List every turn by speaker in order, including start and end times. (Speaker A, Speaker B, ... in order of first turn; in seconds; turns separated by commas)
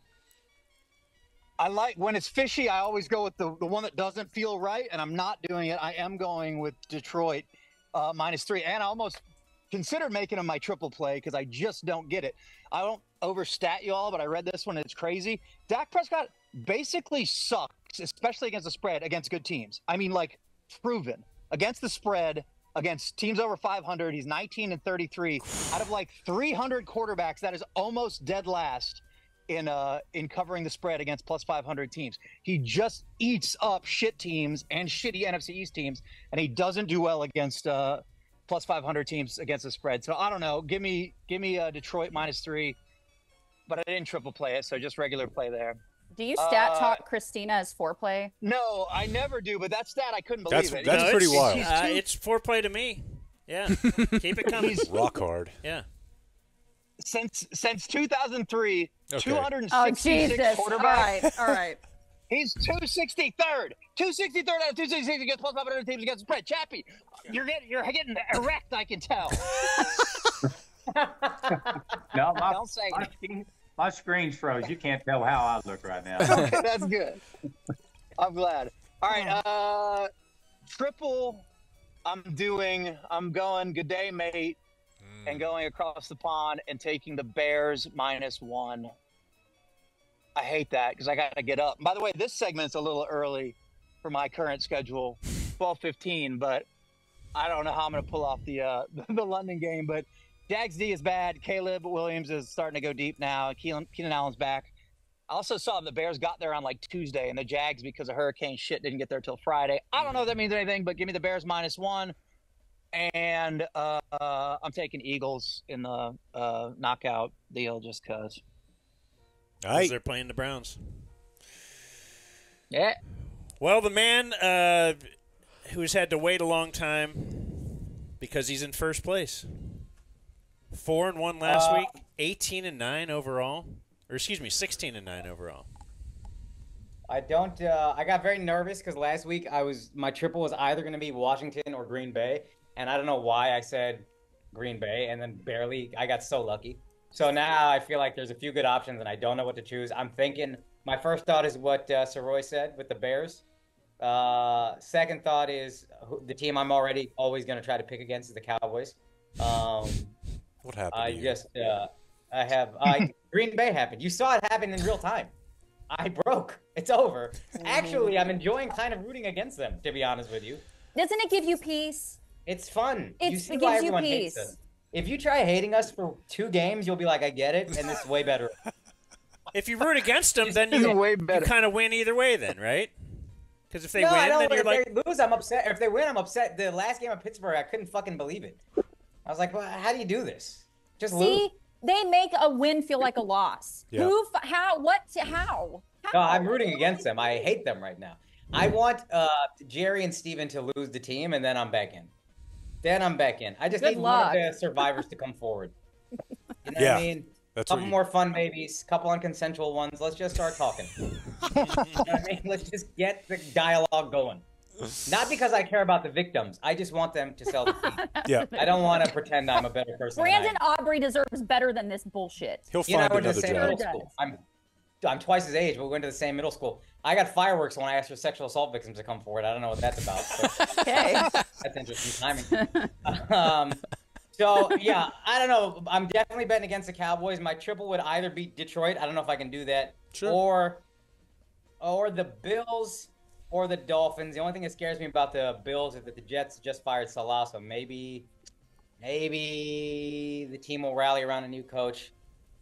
Speaker A: 1.6-42.8, Speaker A: 43.7-45.8, Speaker B: 46.1-48.3, Speaker A: 46.4-47.0, Speaker A: 48.4-52.0, Speaker C: 50.5-51.8, Speaker D: 50.9-54.9, Speaker A: 54.5-54.9, Speaker C: 54.8-55.6, Speaker A: 57.0-61.1, Speaker C: 59.1-59.5, Speaker B: 59.7-61.8, Speaker A: 62.3-70.1, Speaker E: 70.9-71.8, Speaker F: 72.1-76.6, Speaker A: 72.5-73.1, Speaker A: 76.2-77.2, Speaker A: 78.2-80.1, Speaker A: 80.7-81.5, Speaker A: 82.0-84.6, Speaker C: 85.0-85.5, Speaker A: 85.2-88.9, Speaker A: 90.3-96.7, Speaker A: 97.3-104.7, Speaker A: 105.3-112.2, Speaker D: 110.0-110.3, Speaker A: 112.9-118.4, Speaker C: 119.6-119.9, Speaker D: 119.7-121.0, Speaker A: 122.7-123.0, Speaker D: 123.6-125.1, Speaker D: 125.7-129.8, Speaker D: 130.7-135.7, Speaker E: 131.4-131.9, Speaker E: 137.1-153.4, Speaker E: 154.0-160.2, Speaker C: 160.6-161.4, Speaker E: 160.9-165.3, Speaker E: 165.9-170.6, Speaker B: 167.6-168.3, Speaker B: 170.9-172.2, Speaker E: 172.4-178.6, Speaker B: 173.2-174.5, Speaker D: 179.5-182.9, Speaker A: 180.5-181.5, Speaker D: 183.7-184.8, Speaker E: 184.0-188.6, Speaker E: 189.2-191.4, Speaker B: 191.1-197.3, Speaker E: 196.1-202.1, Speaker E: 202.8-205.7, Speaker B: 203.8-204.5, Speaker E: 206.6-210.9, Speaker C: 206.8-207.9, Speaker D: 211.6-212.0, Speaker E: 211.9-214.4, Speaker E: 215.0-220.6, Speaker B: 217.5-219.6, Speaker C: 218.2-218.6, Speaker B: 220.2-222.7, Speaker C: 222.7-223.8, Speaker E: 222.8-224.4, Speaker B: 223.2-224.1, Speaker E: 225.0-233.8, Speaker B: 230.8-231.3, Speaker B: 232.5-232.9, Speaker E: 234.3-240.8, Speaker C: 240.1-240.4, Speaker E: 241.8-248.3, Speaker E: 249.0-252.1